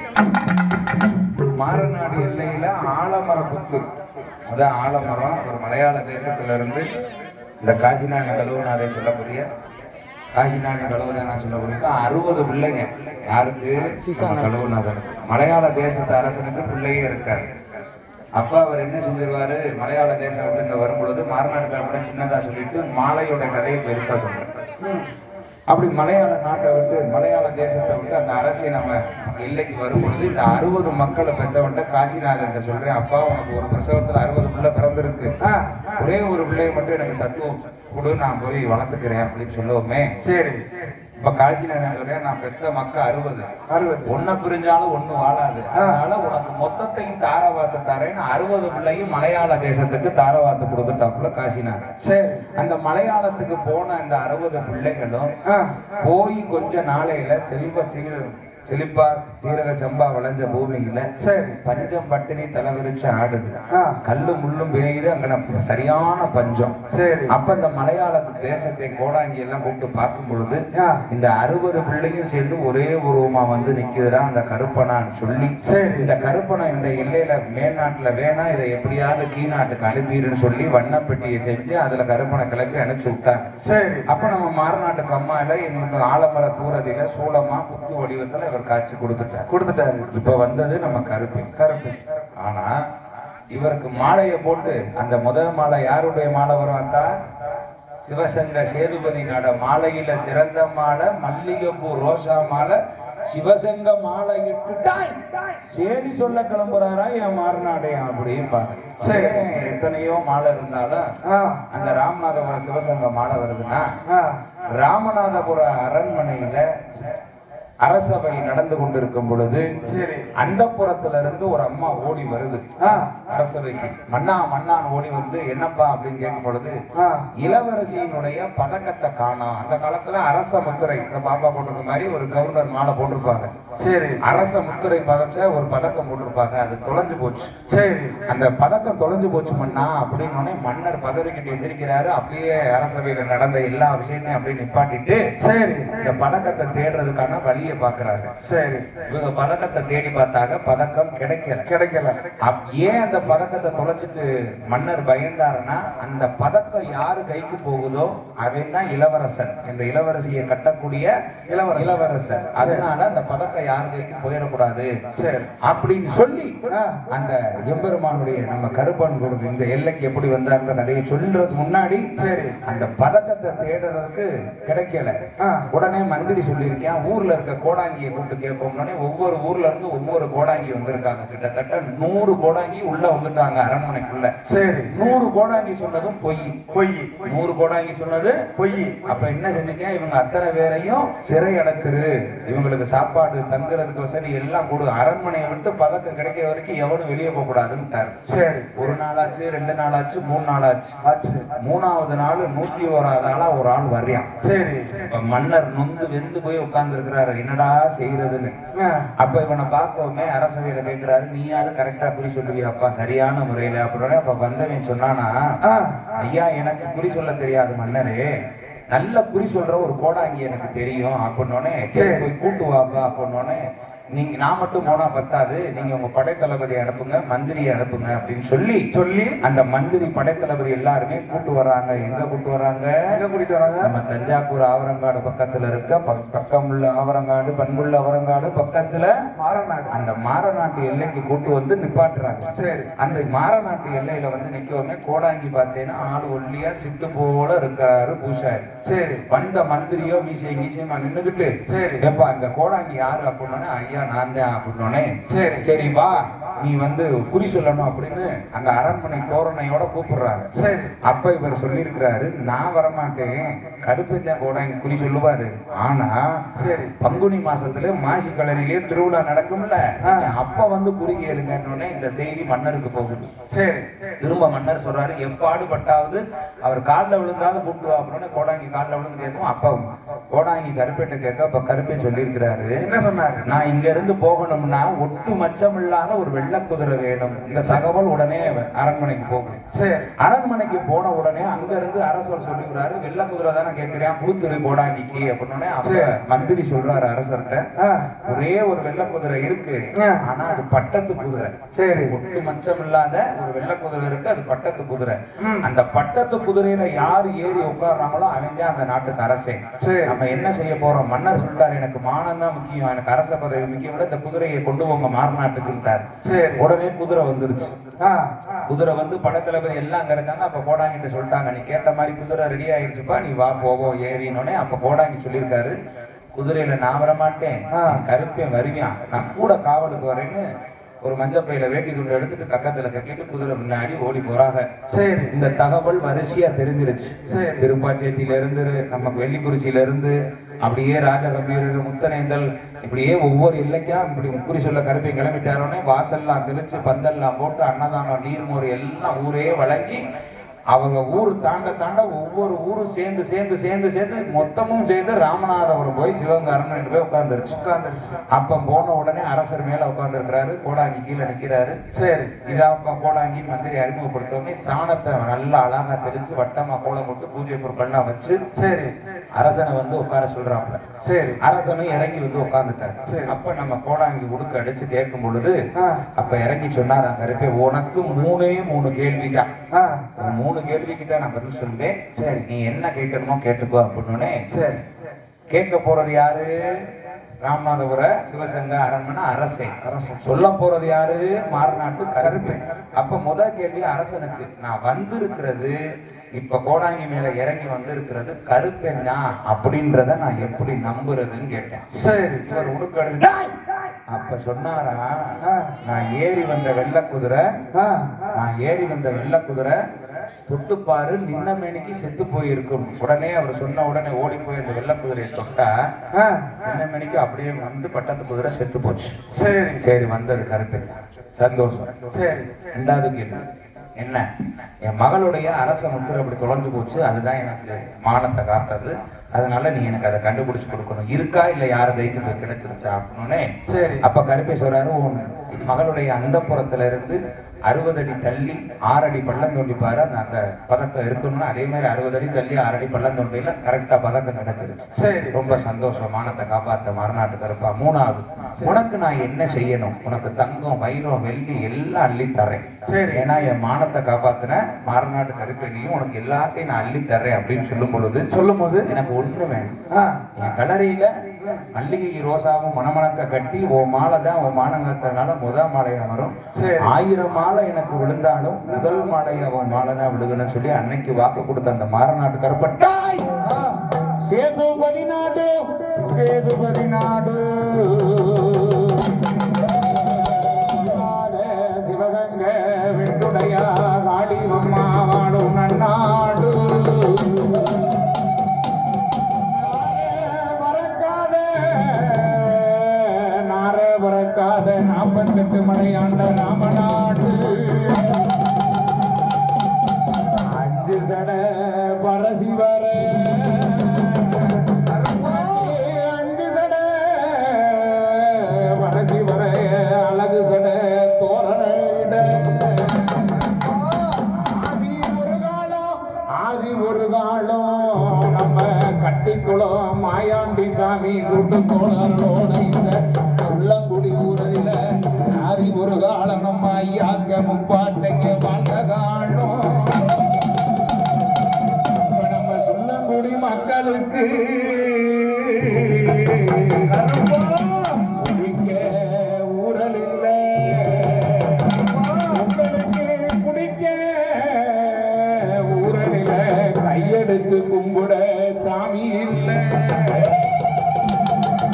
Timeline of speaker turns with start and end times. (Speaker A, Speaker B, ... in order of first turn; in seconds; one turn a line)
Speaker A: 1.6-3.8
Speaker A: 4.5-6.9
Speaker A: 7.6-9.4
Speaker A: 10.3-17.4
Speaker A: 18.4-24.5
Speaker A: 25.7-35.3
Speaker B: 35.4-35.8
Speaker A: 36.0-40.1
Speaker B: 40.2-40.6
Speaker A: 41.2-43.5
Speaker B: 43.7-44.1
Speaker A: 44.0-51.8
Speaker B: 52.0-52.4
Speaker A: 52.5-55.3
Speaker B: 55.5-55.8
Speaker A: 56.0-61.1
Speaker B: 61.2-61.6
Speaker A: 61.6-66.8
Speaker B: 63.7-64.0
Speaker B: 66.9-67.3
Speaker A: 67.3-83.4
Speaker B: 70.7-71.0
Speaker B: 75.6-76.1
Speaker B: 83.6-84.1
Speaker A: 84.1-89.5
Speaker B: 89.5-90.1
Speaker A: 90.1-91.5
Speaker B: 91.5-92.0
Speaker A: 92.4-92.7
Speaker A: 93.5-97.1
Speaker A: 98.0-102.8
Speaker A: 103.3-111.1
Speaker B: 109.0-109.4
Speaker B: 111.2-111.6
Speaker A: 111.7-113.9
Speaker B: 114.1-114.4
Speaker A: 114.7-116.7
Speaker A: 117.8-119.8
Speaker B: 119.8-120.3
Speaker A: 120.3-126.7
Speaker B: 122.8-123.1
Speaker B: 126.9-127.3
Speaker A: 127.4-133.5
Speaker B: 133.8-134.2
Speaker A: 134.2-137.5
Speaker B: 137.7-138.2
Speaker A: 138.3-145.2
Speaker B: 145.4-145.9
Speaker A: 145.9-148.3
Speaker B: 148.4-148.9
Speaker A: 149.1-151.7
Speaker B: 151.7-152.2
Speaker A: 152.4-161.1
Speaker B: 161.5-162.0
Speaker A: 161.7-164.9
Speaker B: 162.6-162.9
Speaker B: 165.1-165.5
Speaker A: 165.6-166.6
Speaker B: 166.7-167.0
Speaker A: 167.1-172.0
Speaker B: 172.2-172.6
Speaker A: 172.6-175.2
Speaker B: 175.4-175.7
Speaker A: 175.7-184.3
Speaker B: 184.4-184.9
Speaker A: 184.9-186.6
Speaker B: 186.7-187.2
Speaker A: 187.2-188.4
Speaker B: 188.5-189.0
Speaker A: 189.1-198.2
Speaker B: 198.3-198.7
Speaker A: 198.7-201.0
Speaker B: 201.0-201.5
Speaker A: 201.6-204.3
Speaker B: 204.4-205.0
Speaker A: 204.9-208.5
Speaker B: 208.8-209.1
Speaker A: 209.2-215.4
Speaker B: 215.6-216.0
Speaker A: 216.2-218.3
Speaker A: 218.9-223.6
Speaker B: 221.9-222.3
Speaker A: 224.1-228.8
Speaker B: 228.9-229.4
Speaker A: 229.4-232.9
Speaker B: 233.1-233.9
Speaker A: 233.8-239.1
Speaker B: 239.4-239.9
Speaker A: 239.9-248.7
Speaker B: 242.5-242.9
Speaker B: 248.8-249.2
Speaker A: 249.3-255.1
Speaker B: 251.7-252.1
Speaker B: 255.3-255.7
Speaker A: 255.6-260.5
Speaker B: 260.5-260.9
Speaker A: 261.0-266.4
Speaker B: 266.6-266.9
Speaker A: 267.0-273.3
Speaker B: 270.0-270.3
Speaker B: 273.5-273.9
Speaker A: 274.2-282.9
Speaker B: 282.8-283.6
Speaker A: 283.4-289.6
Speaker B: 289.7-290.1
Speaker A: 290.2-297.6
Speaker B: 295.8-296.1
Speaker B: 297.8-298.1
Speaker A: 298.2-301.5
Speaker B: 299.9-300.2
Speaker B: 301.7-302.2
Speaker A: 302.1-316.0
Speaker B: 305.4-305.7
Speaker B: 309.8-310.2
Speaker B: 316.2-316.6
Speaker A: 316.6-317.7
Speaker B: 318.0-318.3
Speaker A: 318.7-325.7
Speaker A: 326.3-330.4
Speaker B: 327.7-328.0
Speaker A: 331.0-334.6
Speaker B: 334.9-335.3
Speaker A: 335.3-350.0
Speaker B: 337.3-337.6
Speaker A: 350.7-357.6
Speaker B: 357.6-358.2
Speaker A: 358.3-361.8
Speaker B: 361.9-362.4
Speaker A: 362.4-368.4
Speaker B: 368.5-368.9
Speaker A: 369.4-370.8
Speaker B: 371.0-371.4
Speaker A: 371.4-375.6
Speaker B: 373.0-373.4
Speaker B: 375.8-376.0
Speaker A: 376.1-379.5
Speaker B: 379.7-380.0
Speaker A: 380.2-384.4
Speaker B: 382.1-382.5
Speaker B: 384.5-384.8
Speaker A: 385.5-386.5
Speaker A: 387.4-395.8
Speaker B: 389.8-390.2
Speaker B: 392.2-392.6
Speaker A: 396.4-401.8
Speaker B: 401.9-402.5
Speaker A: 402.4-403.5
Speaker A: 404.1-407.5
Speaker B: 405.4-405.7
Speaker B: 407.7-408.1
Speaker A: 408.3-409.8
Speaker A: 410.5-415.7
Speaker B: 416.1-416.5
Speaker A: 416.6-419.1
Speaker B: 419.3-419.8
Speaker A: 419.8-421.9
Speaker B: 422.1-422.5
Speaker A: 422.7-423.4
Speaker A: 424.0-424.2
Speaker A: 424.8-433.5
Speaker B: 433.7-434.0
Speaker A: 434.0-458.3
Speaker B: 444.9-445.4
Speaker B: 452.9-453.3
Speaker B: 458.3-458.9
Speaker A: 458.9-459.8
Speaker B: 459.9-460.2
Speaker A: 460.4-461.1
Speaker A: 461.7-473.4
Speaker B: 466.5-466.9
Speaker B: 473.4-473.8
Speaker A: 474.2-479.1
Speaker A: 479.9-487.8
Speaker A: 489.5-498.2
Speaker A: 500.4-513.1
Speaker B: 504.9-505.8
Speaker B: 513.3-514.3
Speaker A: 514.4-530.1
Speaker A: 532.0-536.9
Speaker B: 536.8-538.1
Speaker A: 538.1-541.8
Speaker B: 541.7-542.4
Speaker A: 542.3-550.4